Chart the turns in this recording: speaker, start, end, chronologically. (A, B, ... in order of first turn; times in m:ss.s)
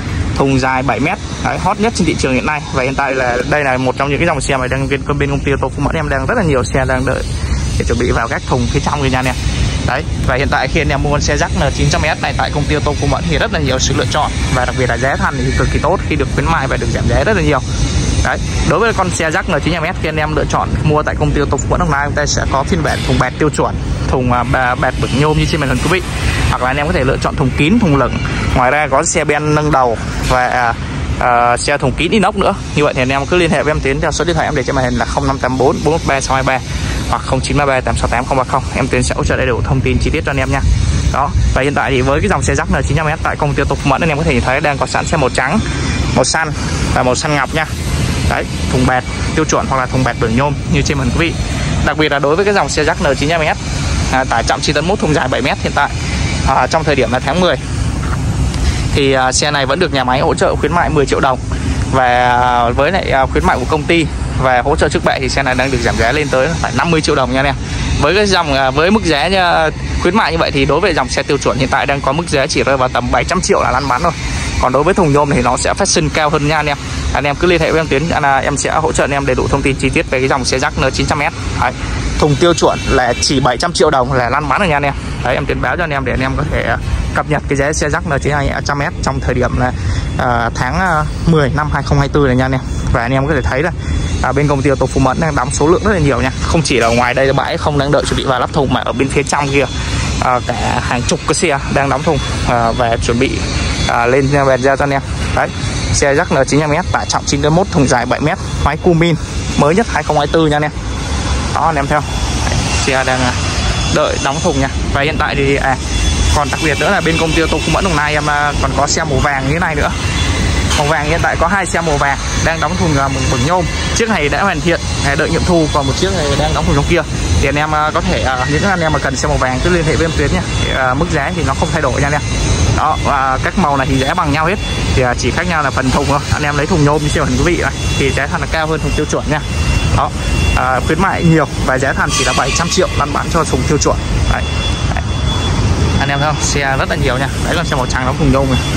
0:00.3-0:07.3 A
0:07.8-0:47.7 A
0:48.3-0:55.9 A
0:56.4-0:57.6 A
0:58.9-1:50.7 A
1:51.5-2:00.0 A
2:00.8-2:25.0 A
2:26.0-2:28.6 A